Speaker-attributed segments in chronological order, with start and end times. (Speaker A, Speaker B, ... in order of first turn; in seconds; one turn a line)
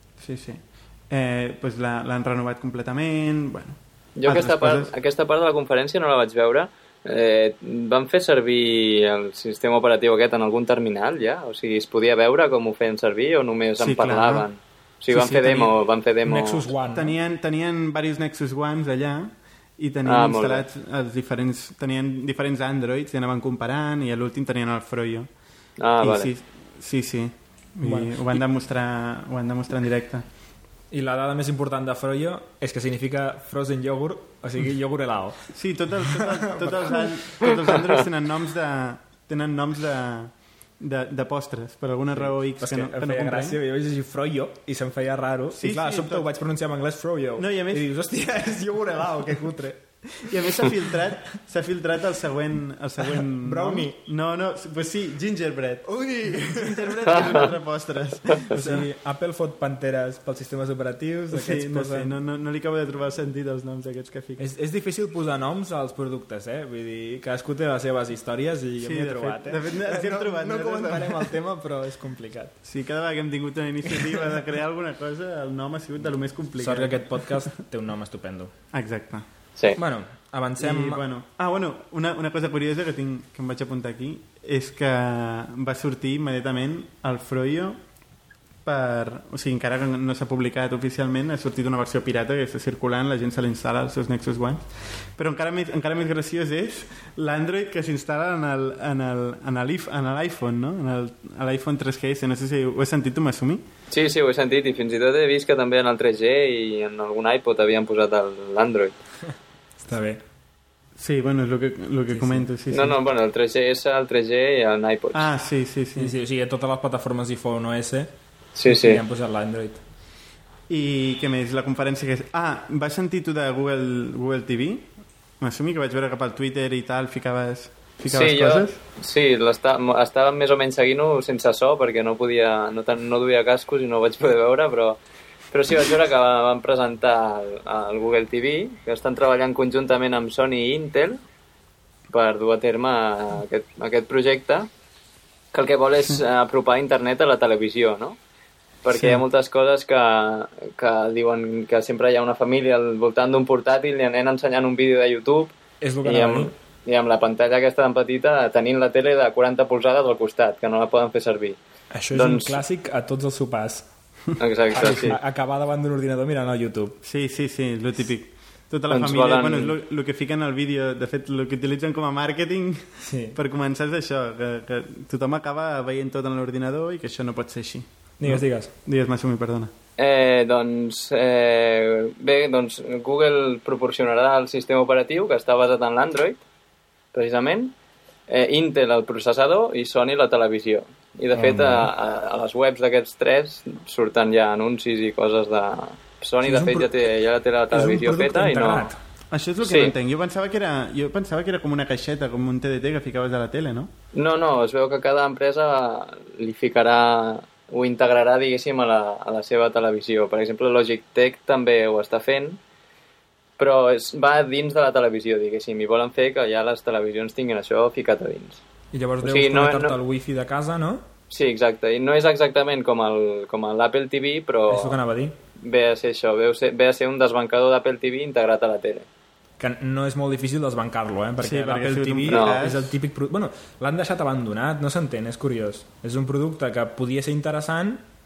Speaker A: 0.2-4.9
Speaker B: 4.2-16.7
Speaker A: 13.8-14.5
Speaker A: 15.1-15.7
Speaker C: 16.2-17.1
Speaker A: 16.9-25.3
Speaker B: 20.1-20.6
Speaker B: 25.8-26.3
Speaker A: 26.0-30.2
Speaker C: 27.8-28.4
Speaker C: 30.9-35.5
Speaker A: 35.5-43.6
Speaker C: 36.0-37.0
Speaker C: 42.1-50.3
Speaker A: 45.5-46.3
Speaker A: 47.4-47.9
Speaker A: 50.0-58.9
Speaker C: 53.1-54.0
Speaker C: 55.9-57.4
Speaker B: 57.1-57.5
Speaker C: 58.5-62.1
Speaker A: 61.3-64.4
Speaker C: 64.4-72.5
Speaker A: 68.8-71.3
Speaker A: 72.6-77.4
Speaker C: 76.6-78.5
Speaker A: 78.7-79.3
Speaker C: 79.8-81.0
Speaker A: 80.6-87.8
Speaker A: 88.6-103.6
Speaker B: 103.9-109.0
Speaker C: 109.8-110.2
Speaker A: 111.0-113.0
Speaker C: 112.1-112.5
Speaker B: 112.7-115.3
Speaker A: 115.1-116.1
Speaker C: 116.0-118.1
Speaker B: 118.5-119.0
Speaker C: 118.7-119.8
Speaker A: 120.7-128.8
Speaker B: 128.1-135.0
Speaker B: 135.5-141.2
Speaker B: 142.1-144.7
Speaker B: 145.5-148.2
Speaker B: 148.8-155.5
Speaker A: 148.9-149.2
Speaker C: 155.8-156.5
Speaker B: 156.0-161.6
Speaker C: 161.9-163.9
Speaker B: 162.1-162.6
Speaker B: 164.4-165.2
Speaker C: 164.7-167.0
Speaker A: 167.0-179.7
Speaker B: 168.9-169.8
Speaker C: 173.0-173.4
Speaker C: 178.2-178.7
Speaker B: 180.0-186.4
Speaker B: 187.1-187.7
Speaker B: 188.3-198.9
Speaker C: 191.3-191.9
Speaker C: 196.4-197.1
Speaker C: 197.7-199.0
Speaker A: 199.3-203.9
Speaker B: 199.6-199.9
Speaker B: 204.1-212.6
Speaker B: 213.6-218.6
Speaker C: 218.9-221.0
Speaker B: 219.2-220.0
Speaker B: 221.3-225.0
Speaker C: 224.7-225.3
Speaker B: 225.6-229.1
Speaker C: 229.6-238.0
Speaker A: 231.4-232.9
Speaker B: 232.3-232.6